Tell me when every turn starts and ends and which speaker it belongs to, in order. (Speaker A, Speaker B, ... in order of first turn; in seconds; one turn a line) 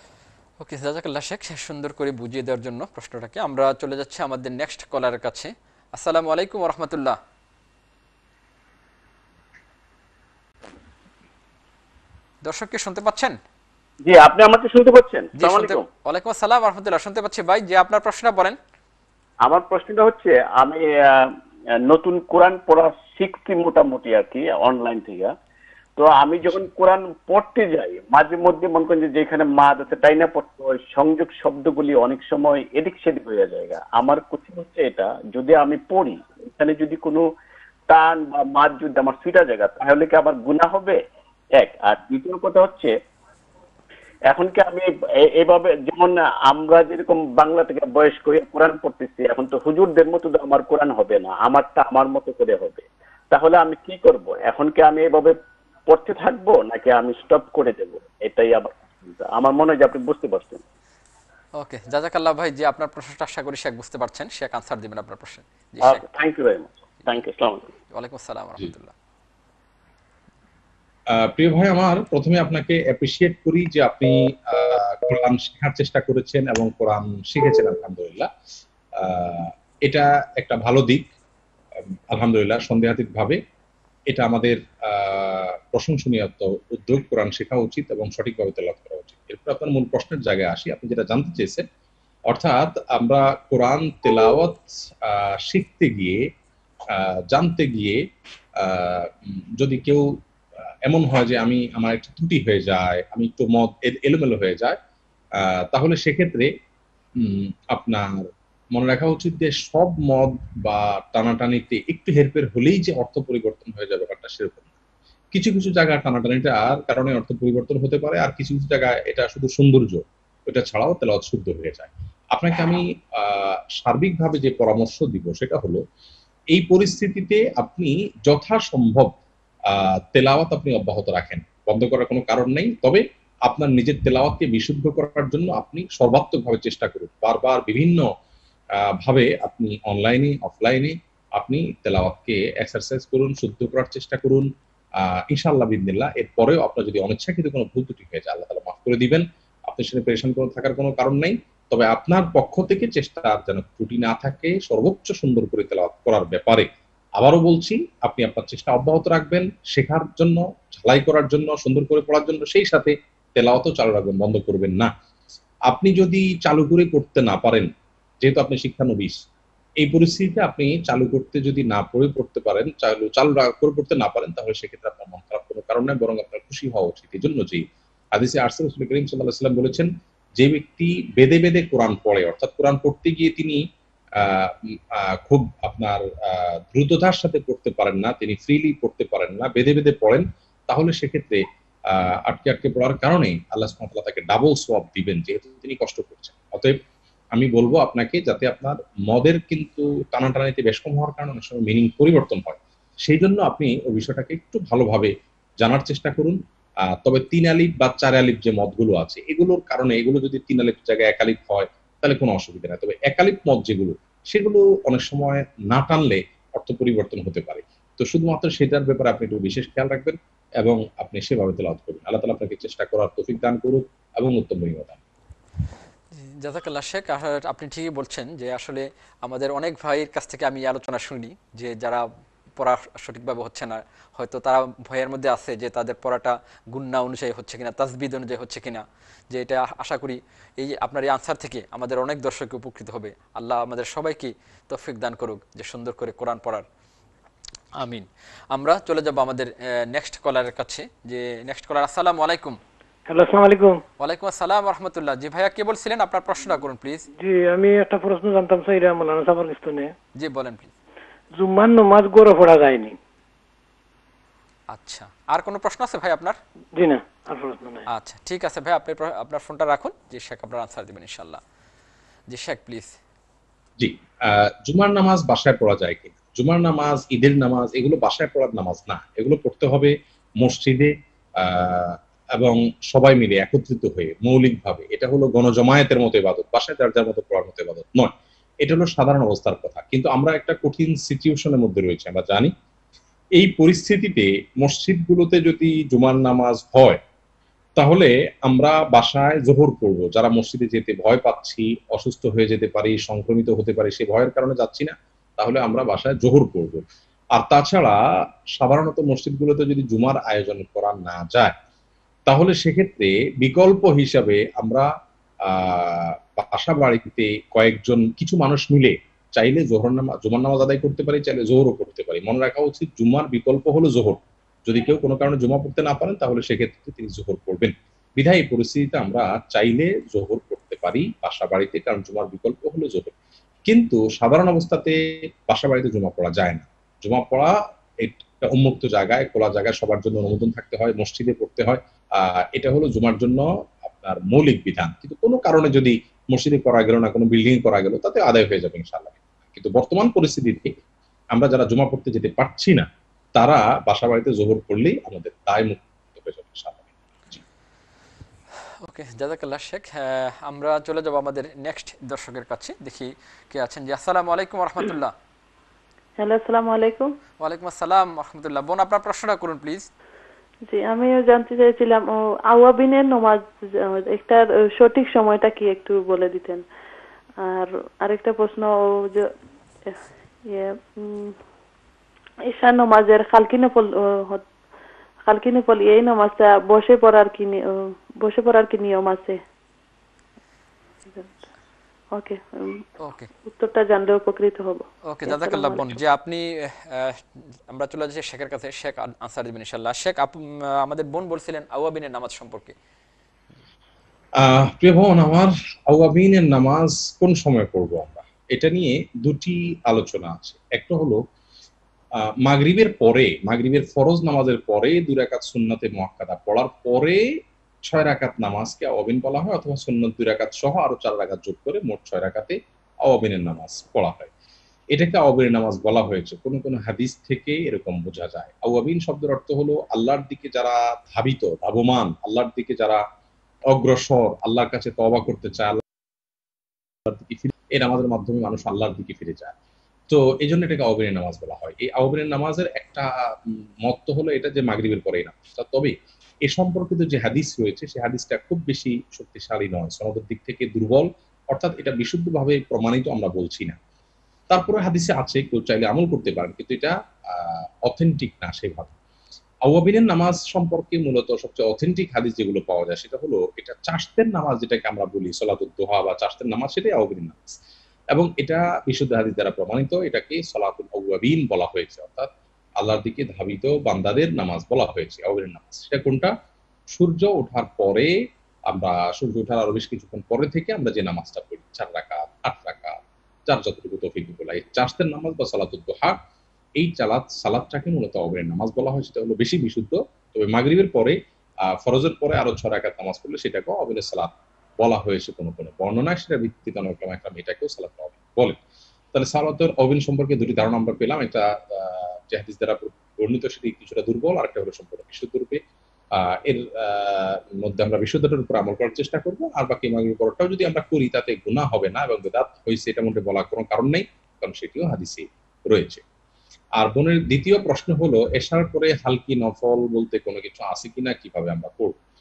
Speaker A: 0.6-7.2
Speaker A: 12.4-13.4
Speaker B: 14.0-15.9
Speaker A: 15.3-18.6
Speaker B: 19.4-21.3
Speaker B: 21.9-25.3
Speaker B: 26.0-37.3
Speaker B: 37.9-41.0
Speaker B: 41.5-42.9
Speaker B: 44.3-55.4
Speaker B: 55.9-60.6
Speaker A: 61.6-66.0
Speaker B: 65.8-67.7
Speaker A: 67.9-68.9
Speaker C: 71.1-78.3
Speaker C: 79.0-81.1
Speaker C: 82.1-83.4
Speaker C: 84.1-91.6
Speaker C: 92.3-96.2
Speaker C: 96.9-98.0
Speaker C: 98.6-100.1
Speaker C: 100.8-104.8
Speaker C: 105.4-106.5
Speaker C: 107.2-114.7
Speaker C: 115.3-125.8
Speaker C: 126.5-129.1
Speaker C: 129.7-138.1
Speaker C: 138.8-144.5
Speaker C: 145.0-164.9
Speaker C: 165.7-167.7
Speaker C: 168.2-169.2
Speaker C: 169.8-183.6
Speaker C: 184.2-196.8
Speaker C: 197.3-206.4
Speaker C: 206.9-225.0
Speaker A: 226.1-232.0
Speaker A: 232.6-246.6
Speaker A: 247.8-252.6
Speaker D: 253.1-253.8
Speaker A: 254.0-257.1
Speaker D: 257.2-259.9
Speaker A: 260.2-260.7
Speaker D: 261.4-263.0
Speaker A: 264.7-266.4
Speaker D: 266.8-267.9
Speaker A: 267.9-271.4
Speaker A: 272.3-273.0
Speaker C: 273.8-292.5
Speaker C: 293.4-297.0
Speaker C: 297.8-306.8
Speaker C: 307.3-308.0
Speaker C: 308.6-311.5
Speaker C: 312.3-314.9
Speaker C: 315.4-333.1
Speaker C: 333.7-350.7
Speaker C: 351.3-357.4
Speaker A: 358.8-365.1
Speaker E: 366.2-367.1
Speaker A: 367.4-369.9
Speaker E: 370.7-376.6
Speaker E: 377.4-379.3
Speaker E: 379.8-381.4
Speaker E: 382.4-384.4
Speaker E: 385.3-389.4
Speaker E: 391.1-391.4
Speaker E: 392.1-392.8
Speaker A: 393.0-393.3
Speaker E: 393.4-395.9
Speaker A: 395.0-402.7
Speaker C: 404.4-411.2
Speaker C: 412.4-417.2
Speaker C: 417.8-424.3
Speaker C: 424.9-433.0
Speaker C: 433.7-435.8
Speaker C: 437.1-439.5
Speaker C: 440.1-453.8
Speaker C: 454.5-458.9
Speaker C: 459.6-467.6
Speaker C: 468.1-476.3
Speaker C: 476.9-478.1
Speaker C: 478.7-486.2
Speaker C: 486.8-491.1
Speaker C: 491.7-498.6
Speaker C: 499.1-505.6
Speaker C: 506.1-516.0
Speaker C: 516.8-522.0